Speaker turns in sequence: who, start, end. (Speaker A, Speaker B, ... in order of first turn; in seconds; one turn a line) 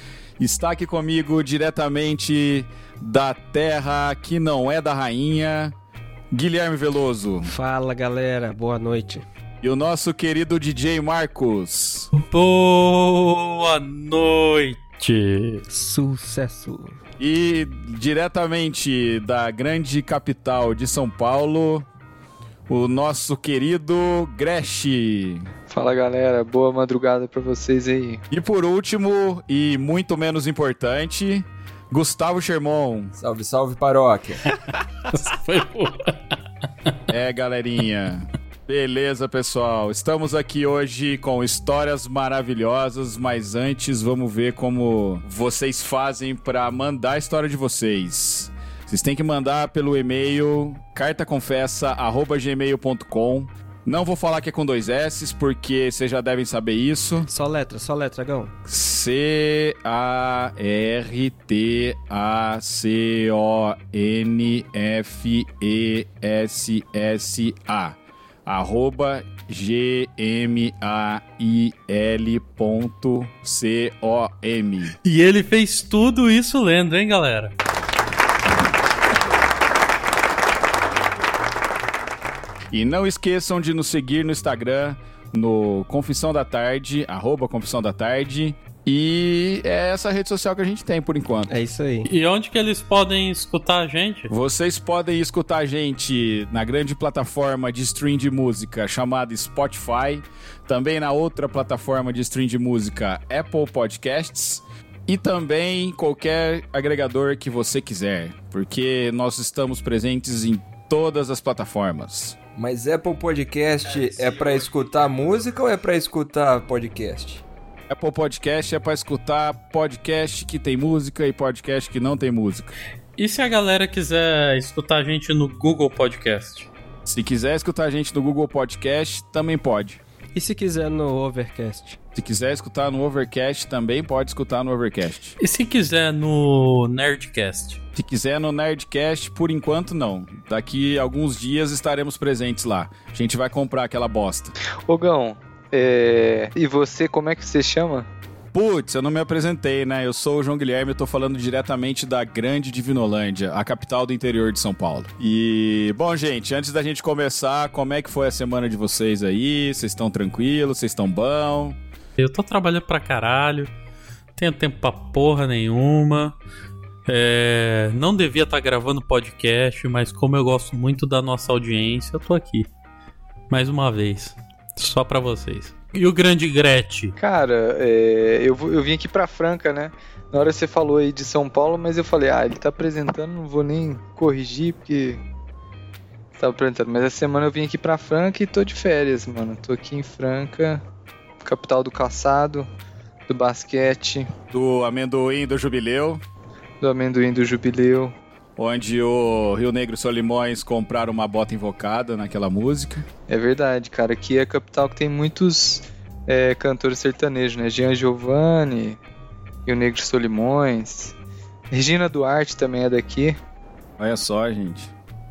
Speaker A: 0.4-5.8
Speaker A: 6.3-7.5
Speaker B: 7.5-9.2
Speaker A: 9.6-12.1
Speaker C: 12.1-15.7
Speaker B: 15.7-16.9
Speaker A: 17.2-21.9
Speaker A: 22.7-25.5
Speaker D: 25.7-28.2
Speaker A: 28.3-33.1
Speaker E: 33.2-34.4
Speaker C: 35.0-36.2
Speaker A: 37.1-57.3
Speaker B: 57.3-58.5
Speaker A: 58.7-75.0
Speaker C: 75.0-77.5
Speaker A: 82.7-91.5
Speaker B: 91.5-92.1
Speaker C: 92.1-94.3
Speaker A: 94.3-112.4
Speaker E: 112.5-117.4
Speaker A: 117.9-122.8
Speaker C: 123.2-126.7
Speaker A: 127.1-130.0
Speaker B: 130.3-132.0
Speaker A: 132.2-135.4
Speaker C: 135.4-137.8
Speaker A: 138.0-144.5
Speaker D: 144.9-148.1
Speaker A: 148.5-161.8
Speaker C: 162.2-163.7
Speaker C: 164.4-166.4
Speaker C: 167.1-172.7
Speaker C: 173.5-177.2
Speaker D: 177.2-185.2
Speaker D: 186.4-190.8
Speaker D: 191.4-192.7
Speaker D: 193.3-194.3
Speaker A: 194.5-196.2
Speaker D: 196.8-198.2
Speaker A: 198.6-203.1
Speaker D: 203.3-209.0
Speaker D: 209.7-211.1
Speaker D: 211.7-213.4
Speaker A: 214.0-214.9